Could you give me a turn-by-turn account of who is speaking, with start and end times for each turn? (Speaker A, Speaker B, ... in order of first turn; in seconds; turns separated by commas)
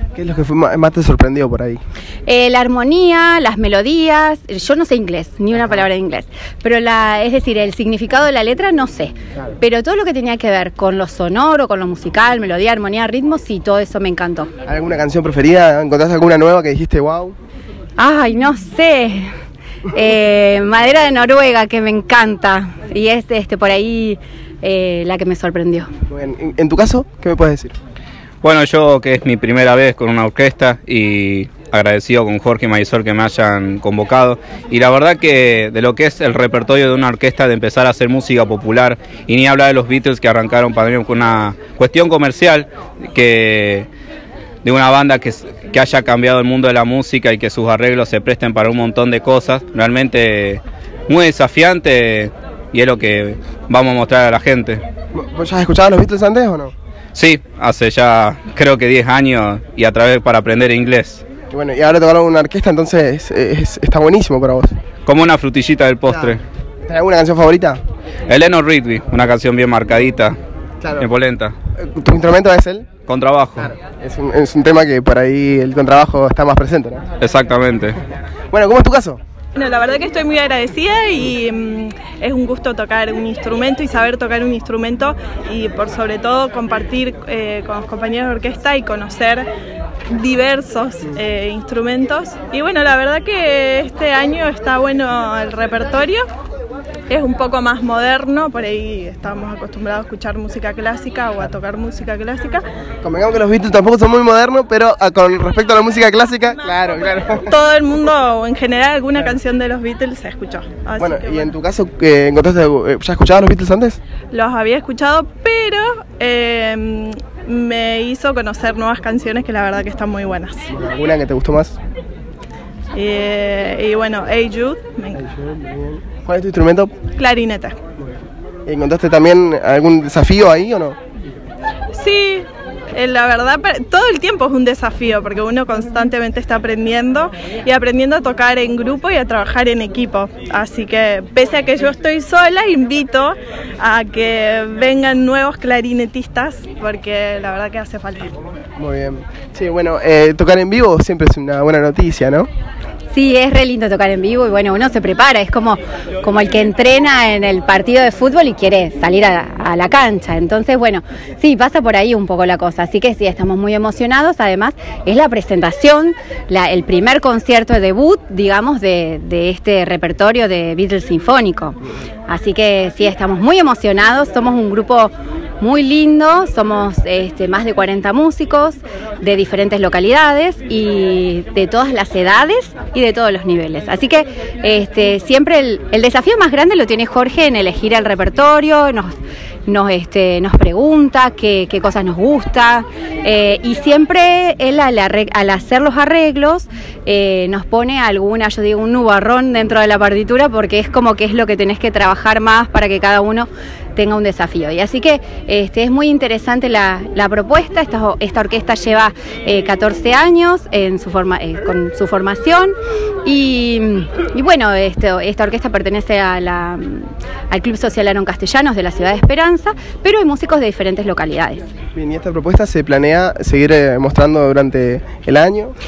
Speaker A: 0.1-1.8, Speaker B: 2.2-14.5, Speaker A: 14.6-17.4, Speaker B: 18.0-19.3, Speaker B: 19.9-25.9, Speaker A: 26.1-27.7, Speaker C: 28.4-43.9, Speaker C: 44.6-54.8, Speaker A: 55.1-56.7, Speaker C: 57.1-61.2, Speaker A: 61.5-64.7, Speaker C: 65.0-66.4, Speaker A: 66.8-67.8, Speaker C: 68.3-70.3, Speaker C: 71.0-71.5, Speaker A: 71.8-72.9, Speaker C: 73.0-73.7, Speaker A: 73.6-77.0, Speaker C: 77.2-78.0, Speaker A: 78.5-79.2, Speaker D: 79.5-89.5, Speaker D: 90.1-96.2, Speaker D: 97.1-102.6, Speaker A: 103.0-107.5, Speaker D: 107.4-111.5, Speaker A: 111.0-114.0, Speaker D: 114.3-120.7, Speaker A: 120.7-121.8, Speaker D: 122.9-125.2, Speaker A: 125.2-126.9, Speaker D: 127.2-127.7, Speaker A: 128.7-131.0, Speaker D: 131.9-148.3, Speaker A: 148.8-152.5, Speaker B: 153.1-171.8, Speaker B: 172.3-221.7, Speaker A: 221.9-225.7